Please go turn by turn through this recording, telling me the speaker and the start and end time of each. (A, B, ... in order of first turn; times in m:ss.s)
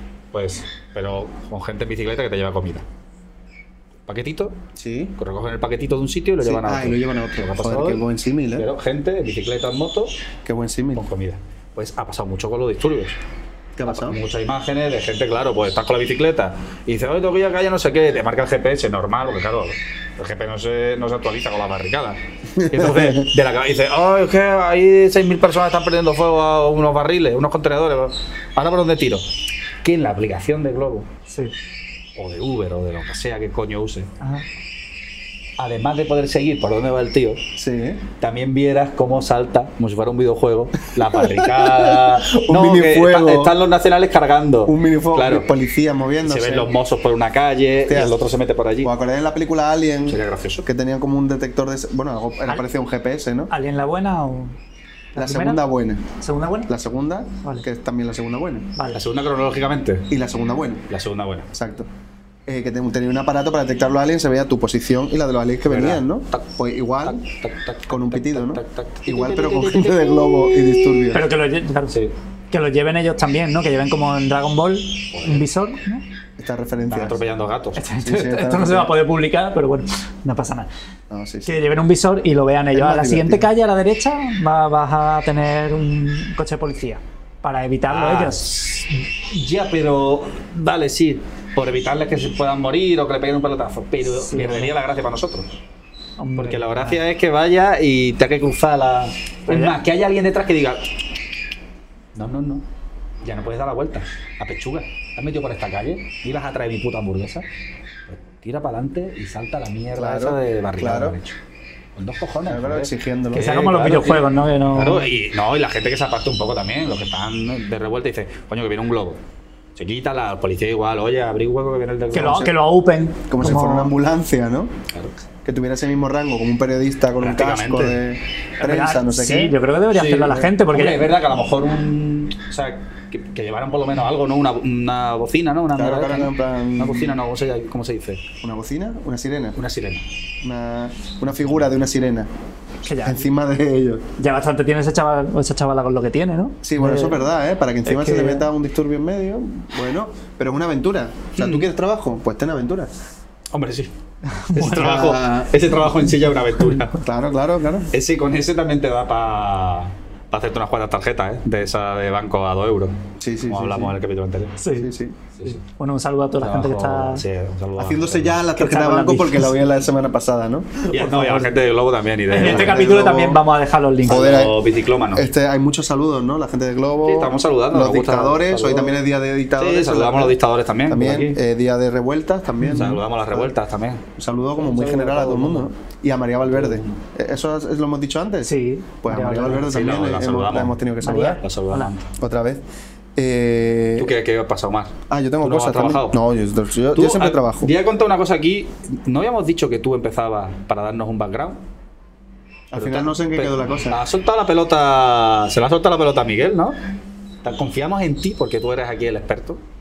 0:00.3-0:02.8 A
0:04.1-0:04.5 A
0:04.8-0:05.1 B
0:05.2-0:08.0 A
0:06.4-0:08.7 B
0:08.6-0:10.2 A
0:10.4-0:11.0 B
0:10.9-0:13.2 A
0:13.8-0:14.2 B
0:13.8-0:29.2 A
0:22.5-0:23.3 B
0:29.8-0:31.1 A
0:32.2-0:34.1 A
0:34.2-0:34.4 C
0:35.6-0:37.4 A
0:37.6-0:38.0 B
0:38.2-0:45.5 A
0:41.1-0:43.5 B
0:44.7-0:46.7 B
0:46.2-0:48.9 A
0:47.9-0:48.2 B
0:48.8-0:53.5 B
0:50.1-0:50.6 A
0:53.5-0:54.5 C
0:55.1-0:55.6 C
0:55.2-0:56.0 B
0:56.2-0:56.7 C
0:56.7-0:58.7 B
0:58.9-1:00.1 A
1:00.1-1:00.8 B
1:00.9-1:01.5 A
1:01.5-1:01.9 B
1:02.5-1:07.2 B
1:05.7-1:06.4 A
1:07.0-1:11.0 A
1:07.9-1:11.3 B
1:11.1-1:12.0 C
1:12.5-1:16.0 C
1:15.1-1:15.4 A
1:16.4-1:17.2 B
1:16.9-1:17.8 A
1:17.8-1:20.7 C
1:18.0-1:18.9 B
1:21.1-1:21.6 B
1:21.4-1:28.5 C
1:22.7-1:23.5 B
1:27.9-1:35.6 A
1:34.1-1:34.7 C
1:36.2-1:37.0 C
1:36.4-1:40.9 A
1:39.5-1:39.8 C
1:42.1-1:42.6 A
1:43.2-1:47.4 A
1:48.1-1:51.4 A
1:49.9-1:51.2 B
1:52.0-1:59.2 A
1:52.4-1:53.5 B
1:53.3-1:55.1 C
1:59.8-2:02.5 A
2:02.1-2:03.9 C
2:03.3-2:04.7 B
2:05.4-2:09.6 B
2:07.2-2:08.0 A
2:08.6-2:11.1 C
2:09.9-2:18.2 A
2:15.7-2:17.2 B
2:18.4-2:19.6 B
2:19.6-2:20.0 A
2:20.4-2:22.3 B
2:22.8-2:23.2 C
2:23.0-2:24.0 B
2:24.2-2:27.2 C
2:26.6-2:32.9 B
2:27.8-2:28.5 C
2:31.4-2:31.7 A
2:33.5-2:33.9 A
2:34.3-2:35.1 C
2:34.5-2:37.0 A
2:34.6-2:35.5 B
2:37.0-2:37.9 B
2:37.9-2:42.9 A
2:43.2-2:43.9 B
2:43.5-2:44.5 A
2:44.6-2:44.9 C
2:44.8-2:45.2 B
2:45.4-2:47.2 C
2:46.4-2:48.4 A
2:47.8-2:51.0 B
2:48.6-2:49.5 C
2:50.9-2:51.5 C
2:50.9-2:52.8 A
2:52.3-2:54.3 C
2:52.3-2:53.4 B
2:54.0-2:54.6 B
2:54.0-2:55.3 A
2:55.1-3:00.4 B
2:57.0-2:59.0 A
2:59.6-3:01.4 A
3:00.9-3:03.5 B
3:02.6-3:04.0 A
3:04.2-3:11.4 B
3:04.6-3:05.7 A
3:06.4-3:07.0 A
3:08.4-3:09.7 C
3:09.5-3:12.1 A
3:11.0-3:11.9 C
3:12.2-3:12.6 B
3:13.2-3:14.1 B
3:14.0-3:16.2 A
3:15.1-3:17.7 B
3:16.9-3:21.6 A
3:22.7-3:24.0 B
3:22.7-3:26.8 A
3:27.4-3:29.6 A